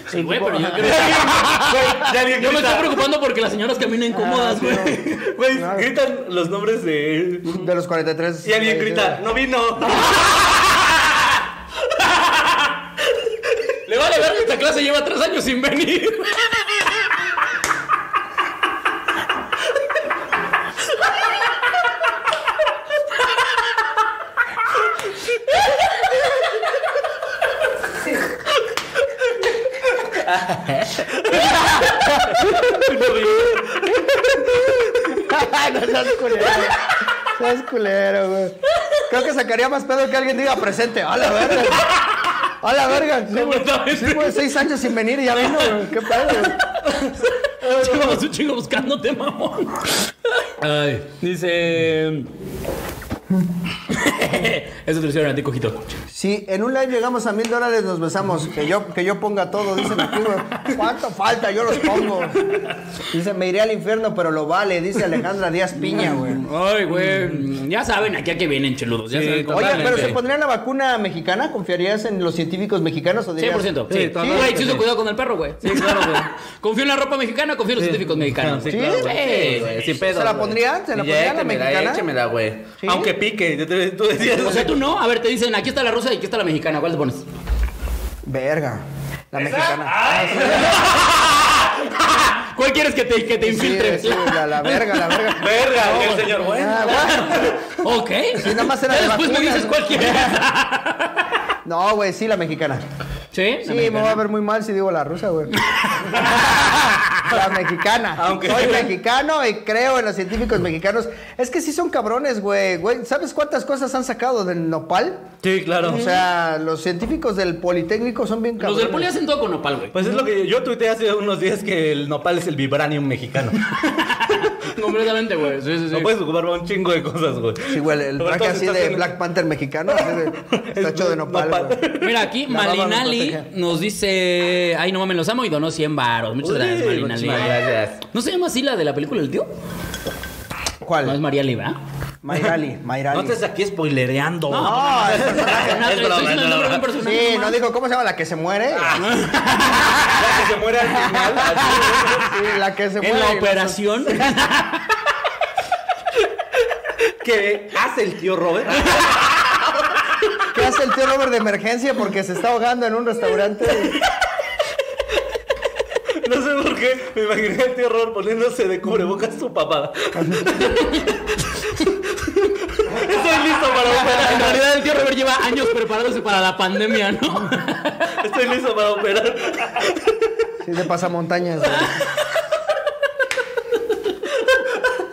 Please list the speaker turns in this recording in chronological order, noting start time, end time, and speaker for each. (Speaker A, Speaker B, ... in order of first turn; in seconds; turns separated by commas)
Speaker A: 0.1-5.2, Speaker B: 0.1-1.1, Speaker C: 0.8-3.0, Speaker B: 4.1-5.0, Speaker C: 5.1-7.7, Speaker B: 5.5-5.9, Speaker B: 7.5-9.2, Speaker C: 8.4-10.7, Speaker A: 12.1-12.6, Speaker A: 13.8-16.5, Speaker C: 30.0-35.2, Speaker B: 35.1-42.0, Speaker B: 42.6-46.5, Speaker A: 43.2-44.6, Speaker A: 45.3-46.8, Speaker C: 46.9-48.2, Speaker A: 47.6-52.3, Speaker A: 53.9-55.9, Speaker B: 56.1-62.4, Speaker B: 63.1-66.4, Speaker A: 65.8-70.2, Speaker C: 67.0-67.4, Speaker C: 69.1-70.2, Speaker B: 69.5-74.5, Speaker A: 73.4-79.8, Speaker C: 73.9-74.9, Speaker C: 75.6-76.3, Speaker C: 77.8-84.8, Speaker B: 78.7-79.2, Speaker B: 79.8-82.0, Speaker B: 82.8-83.1, Speaker A: 84.3-87.2, Speaker B: 88.2-91.0, Speaker C: 90.1-90.8, Speaker A: 90.4-101.2, Speaker B: 93.4-97.5, Speaker C: 95.4-97.8, Speaker B: 98.3-100.5, Speaker B: 101.6-102.8, Speaker A: 103.3-104.2, Speaker B: 103.6-105.5, Speaker A: 105.6-106.5, Speaker B: 106.1-115.3, Speaker C: 108.2-108.9, Speaker C: 115.4-116.2, Speaker B: 115.8-119.1, Speaker A: 118.6-120.0, Speaker C: 119.9-124.5, Speaker A: 124.0-126.1, Speaker C: 125.9-129.1, Speaker B: 127.7-131.8, Speaker C: 129.9-132.2, Speaker A: 132.0-139.5, Speaker B: 132.5-133.5, Speaker C: 136.4-138.0, Speaker B: 140.8-141.2, Speaker A: 141.0-141.8, Speaker B: 142.2-143.4, Speaker C: 143.1-146.9, Speaker A: 144.5-147.6, Speaker B: 144.5-145.9, Speaker B: 146.9-149.0, Speaker C: 148.7-149.1, Speaker A: 149.0-150.2, Speaker C: 150.1-152.4, Speaker B: 150.8-154.4, Speaker A: 153.0-154.9, Speaker C: 157.2-159.9, Speaker B: 160.5-164.0, Speaker C: 166.2-171.2, Speaker B: 170.2-170.5, Speaker A: 170.5-171.2, Speaker C: 171.9-174.6, Speaker A: 173.8-178.1, Speaker C: 178.2-180.2, Speaker B: 180.6-182.0